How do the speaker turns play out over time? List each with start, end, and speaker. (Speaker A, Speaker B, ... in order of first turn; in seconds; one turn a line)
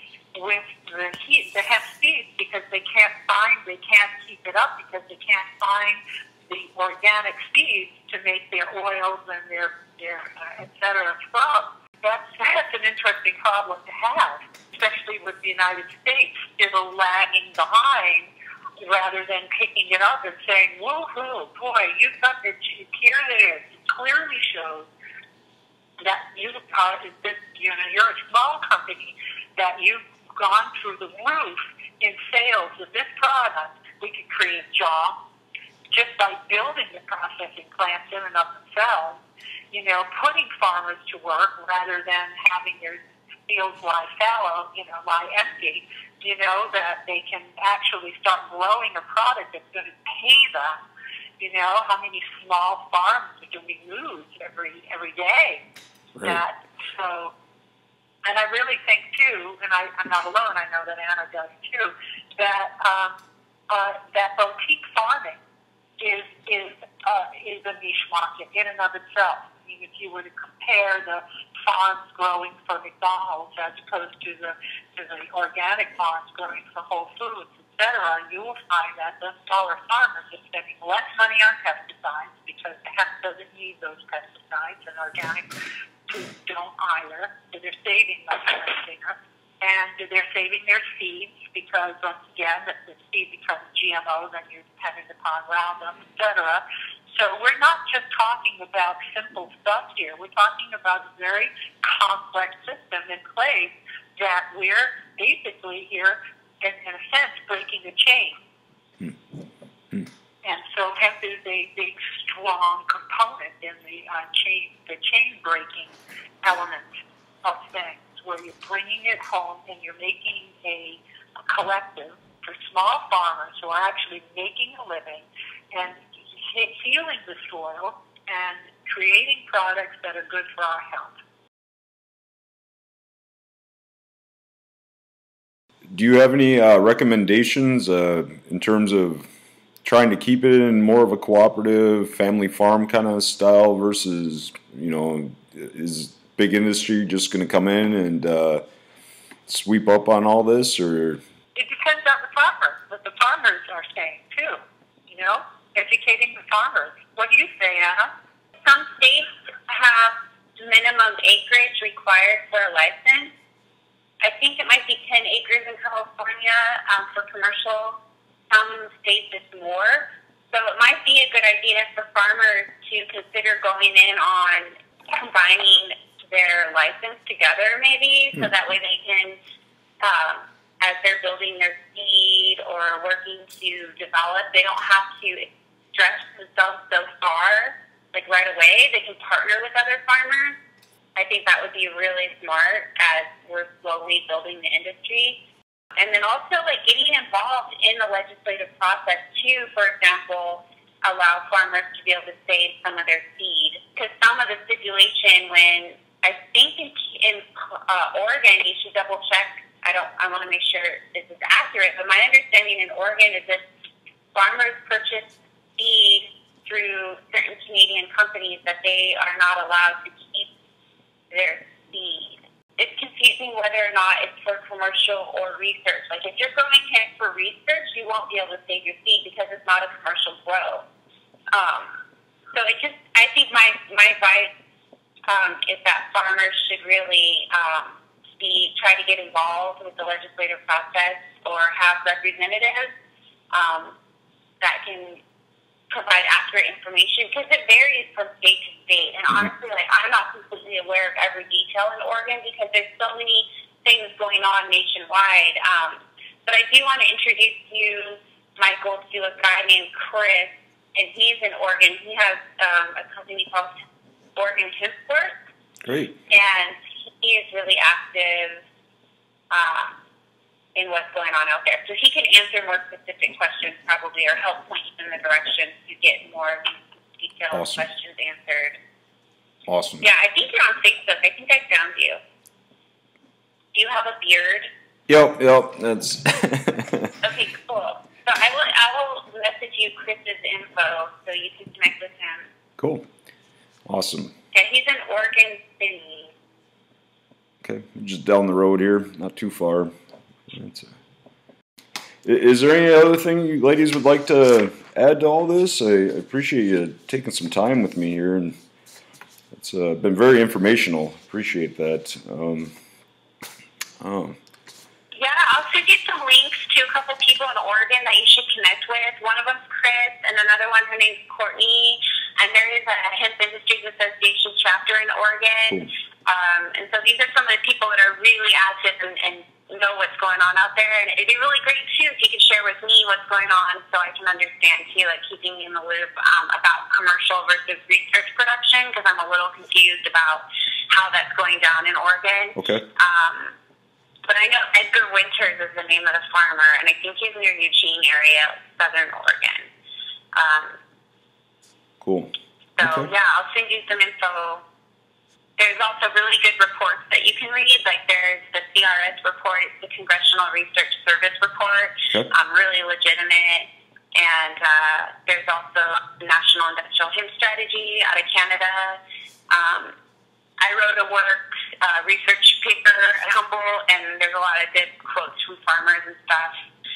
Speaker A: 0.3-24.9
Speaker A: 26.0-35.2
Speaker A: 35.9-39.2
Speaker A: 39.7-50.8
Speaker A: 51.4-55.6
Speaker A: 56.2-57.3
Speaker A: 58.3-63.2
Speaker A: 63.7-65.4
Speaker A: 66.0-85.5
Speaker A: 86.1-108.4
Speaker A: 110.4-116.9
Speaker A: 117.4-131.2
Speaker B: 135.9-139.3
Speaker B: 139.8-148.6
Speaker B: 149.5-151.2
Speaker A: 151.6-158.1
Speaker C: 158.6-163.3
Speaker C: 164.2-168.0
Speaker C: 168.5-179.4
Speaker C: 180.0-190.6
Speaker C: 191.2-195.4
Speaker C: 196.0-213.7
Speaker C: 214.3-220.5
Speaker C: 221.3-230.9
Speaker C: 231.5-232.0
Speaker C: 232.5-234.5
Speaker C: 235.3-242.9
Speaker C: 243.5-244.0
Speaker C: 244.6-245.2
Speaker C: 245.9-263.7
Speaker C: 264.4-265.4
Speaker B: 265.8-266.2
Speaker C: 266.3-268.6
Speaker C: 269.5-270.0
Speaker C: 270.8-278.8
Speaker B: 277.5-277.9
Speaker B: 279.7-280.1
Speaker C: 280.0-282.2
Speaker C: 283.7-284.7
Speaker B: 285.1-287.1
Speaker C: 287.2-292.5
Speaker B: 292.8-293.1
Speaker B: 293.9-294.3
Speaker C: 294.5-296.3
Speaker B: 297.6-299.9
Speaker B: 300.5-300.9
Speaker B: 302.2-308.6
Speaker B: 309.5-312.8
Speaker B: 314.0-314.4
Speaker C: 315.1-343.6
Speaker B: 342.6-342.9
Speaker C: 344.3-349.7
Speaker C: 350.3-350.8
Speaker B: 352.0-353.1
Speaker C: 352.8-354.6
Speaker C: 355.6-369.9
Speaker C: 370.6-376.6